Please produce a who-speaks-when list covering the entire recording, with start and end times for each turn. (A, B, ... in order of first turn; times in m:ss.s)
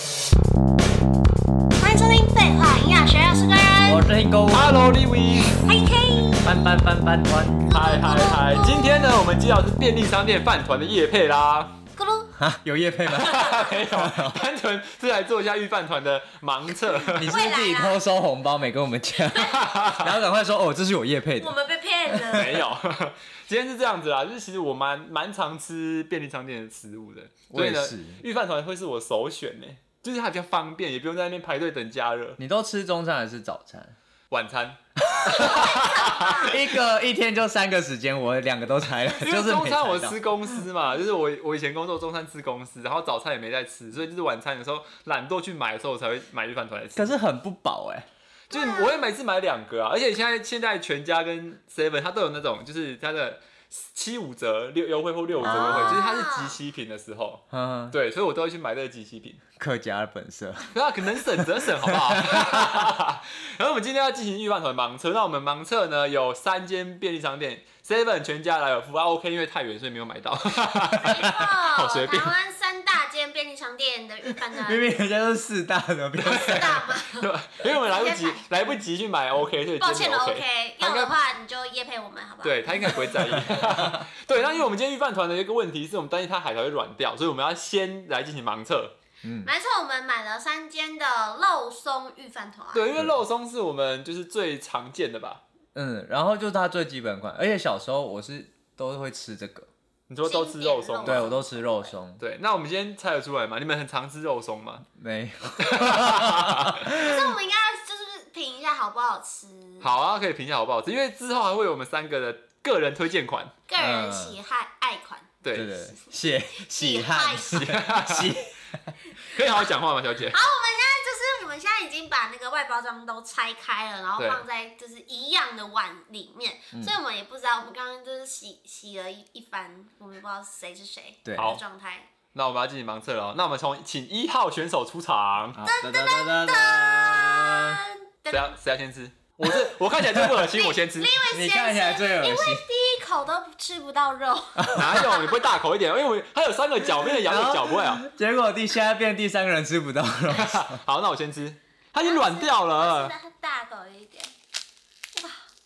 0:01.8-0:04.0 A
0:03.8-0:04.8 B
0:04.5-0:05.6 C
0:05.6-0:06.6 A
0:06.4-0:07.7 B
0:07.7-0:09.1 A
0:07.7-0:11.7 C
0:12.0-0:12.3 A
0:12.4-0:14.4 B
0:13.1-0:17.4 C
0:13.3-0:13.7 A
0:17.1-0:21.6 B
0:17.3-0:18.0 A
0:19.3-0:19.8 A
0:19.5-0:20.2 C
0:21.4-0:22.6 A
0:22.1-0:22.6 B
0:22.3-0:32.4 C
0:27.5-0:28.2 B
0:32.4-0:34.0 B
0:34.3-0:36.6 C
0:35.0-0:35.7 B
0:35.3-0:36.4 A
0:36.3-0:40.2 B
0:39.1-0:47.1 C
0:47.0-0:48.1 B
0:48.5-0:59.4 C
0:48.5-0:49.1 A
0:55.4-0:56.6 A
0:55.4-0:56.0 B
0:57.5-0:58.0 B
0:59.6-1:02.9 B
1:00.7-1:12.4 C
1:10.9-1:11.3 B
1:11.0-1:14.9 A
1:14.5-1:16.8 B
1:16.2-1:18.4 A
1:16.2-1:21.1 C
1:19.8-1:23.6 A
1:22.4-1:28.9 C
1:23.5-1:24.0 B
1:29.2-1:29.5 B
1:29.4-1:32.9 A
1:32.7-1:35.4 C
1:35.8-1:39.7 B
1:40.1-1:41.3 C
1:40.2-1:42.0 A
1:41.0-1:42.2 B
1:42.2-1:44.9 C
1:45.0-1:47.4 B
1:45.6-1:46.8 C
1:46.8-1:49.9 A
1:49.8-1:53.5 C
1:53.7-1:57.8 A
1:53.8-1:54.4 B
1:55.4-1:55.8 C
1:55.5-1:58.9 B
1:57.4-1:58.4 C
1:59.2-2:00.4 C
2:00.3-2:12.1 A
2:04.2-2:04.4 C
2:11.2-2:11.6 B
2:11.4-2:11.6 C
2:12.3-2:15.6 C
2:15.6-2:17.8 B
2:15.6-2:18.6 A
2:18.3-2:21.2 C
2:20.5-2:25.2 A
2:21.3-2:22.6 B
2:24.6-2:25.1 B
2:24.7-2:28.0 C
2:27.1-2:30.8 B
2:30.3-2:33.1 C
2:32.0-2:34.3 A
2:35.2-2:35.4 A